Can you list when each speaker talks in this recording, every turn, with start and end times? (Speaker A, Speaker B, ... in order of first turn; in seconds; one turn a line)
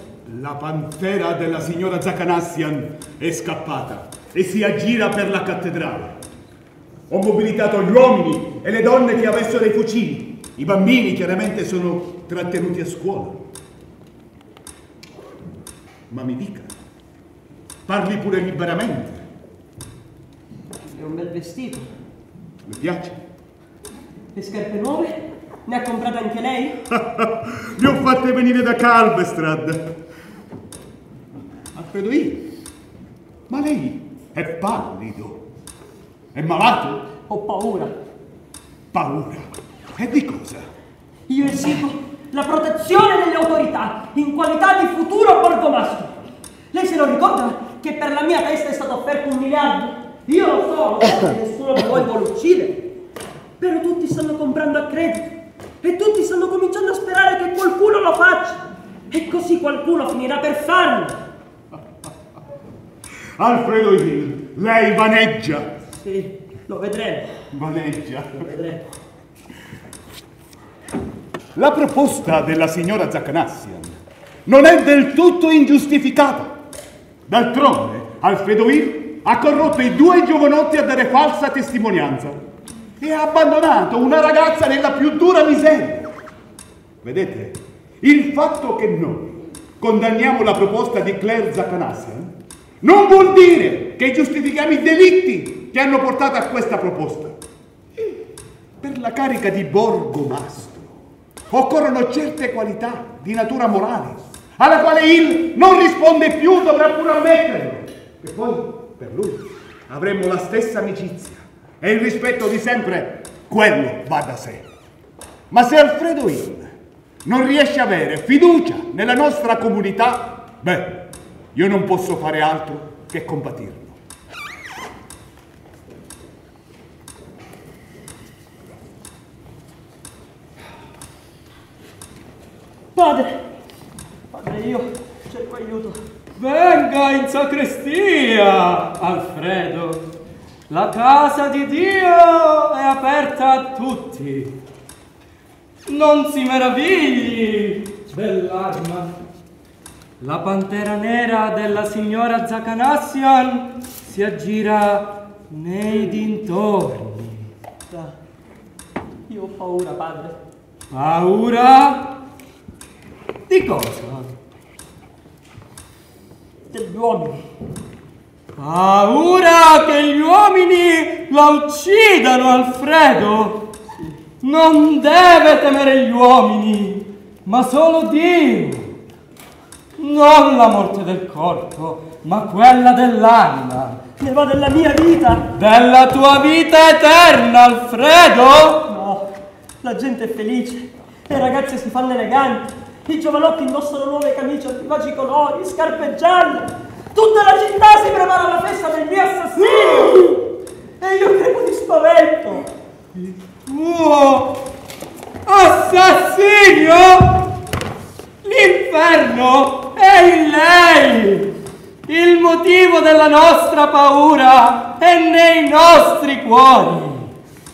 Speaker A: 0.2-6.2
Speaker A: 7.1-13.4
Speaker A: 16.1-16.7
Speaker A: 17.9-19.3
Speaker B: 20.8-21.9
Speaker A: 22.6-23.2
Speaker B: 24.3-26.8
Speaker A: 26.9-30.0
Speaker A: 31.7-32.5
Speaker A: 33.5-35.5
Speaker A: 36.3-37.1
Speaker B: 37.3-37.9
Speaker A: 38.9-40.7
Speaker B: 41.3-46.1
Speaker B: 46.7-52.9
Speaker B: 53.6-61.2
Speaker A: 63.4-65.7
Speaker B: 66.0-67.3
Speaker A: 67.5-68.5
Speaker B: 68.3-68.8
Speaker A: 71.5-76.5
Speaker A: 77.3-82.4
Speaker A: 83.0-86.1
Speaker A: 87.0-97.4
Speaker A: 98.8-101.0
Speaker A: 101.5-114.7
Speaker A: 115.5-116.7
Speaker A: 117.2-124.0
Speaker B: 132.9-133.4
Speaker B: 134.3-136.0
Speaker C: 136.4-140.0
Speaker C: 140.7-144.5
Speaker C: 145.9-149.2
Speaker C: 150.2-157.5
Speaker B: 159.3-160.4
Speaker C: 160.9-162.1
Speaker C: 163.5-164.3
Speaker B: 166.7-167.4
Speaker C: 168.6-173.7
Speaker C: 174.4-178.9
Speaker C: 180.0-184.0
Speaker B: 184.2-185.5
Speaker C: 185.5-188.9
Speaker B: 188.9-189.3
Speaker B: 189.8-200.4
Speaker B: 201.0-202.6
Speaker C: 203.1-204.6
Speaker C: 205.4-207.4
Speaker C: 208.4-211.5
Speaker C: 212.1-217.3